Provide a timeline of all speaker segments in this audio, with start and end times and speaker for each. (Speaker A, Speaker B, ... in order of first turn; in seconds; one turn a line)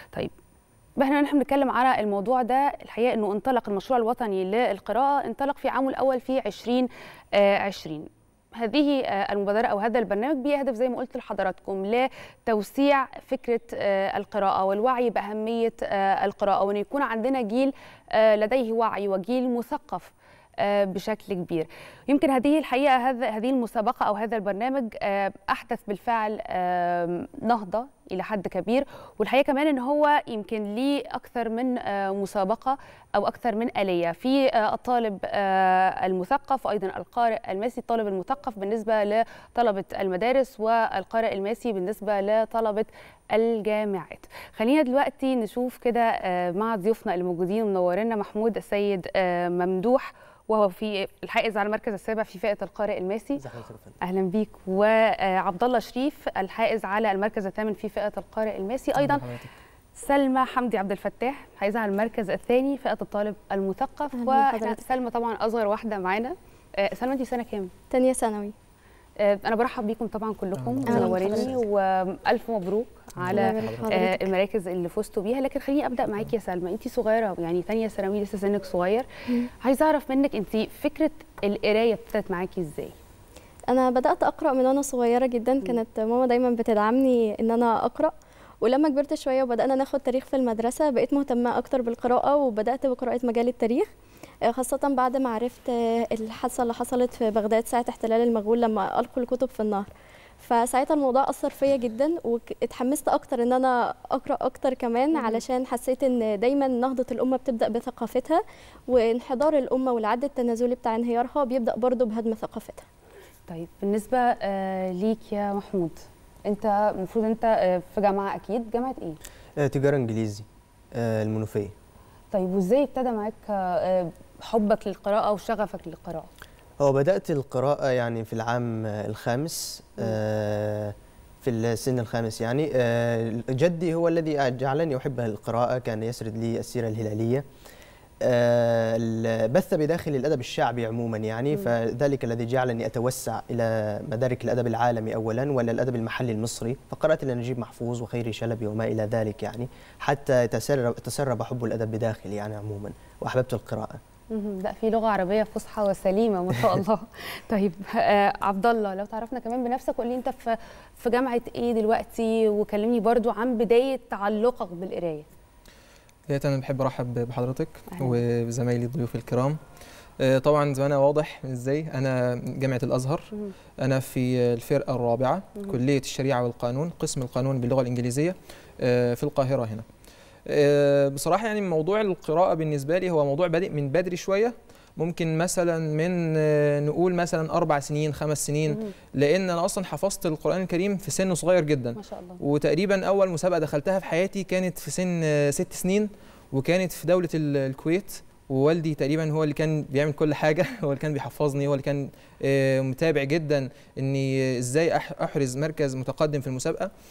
Speaker A: 1.0-53.4
Speaker B: 53.4-54.0
Speaker A: 54.0-59.2
Speaker C: 59.0-59.5
Speaker A: 59.9-67.7
Speaker D: 64.2-64.8
Speaker D: 67.9-68.5
Speaker A: 69.2-79.1
Speaker D: 70.9-71.5
Speaker D: 73.3-74.3
Speaker A: 79.6-82.9
Speaker D: 83.7-93.9
Speaker D: 94.5-99.9
Speaker D: 100.4-112.8
Speaker A: 105.1-105.4
Speaker A: 113.5-119.2
Speaker B: 119.6-121.7
Speaker A: 122.3-126.3
Speaker B: 126.8-137.4
Speaker B: 138.2-154.0
Speaker A: 154.3-165.3
Speaker C: 166.3-169.6
Speaker A: 167.9-168.2
Speaker C: 170.2-179.8
Speaker C: 180.5-206.9
Speaker A: 191.9-192.4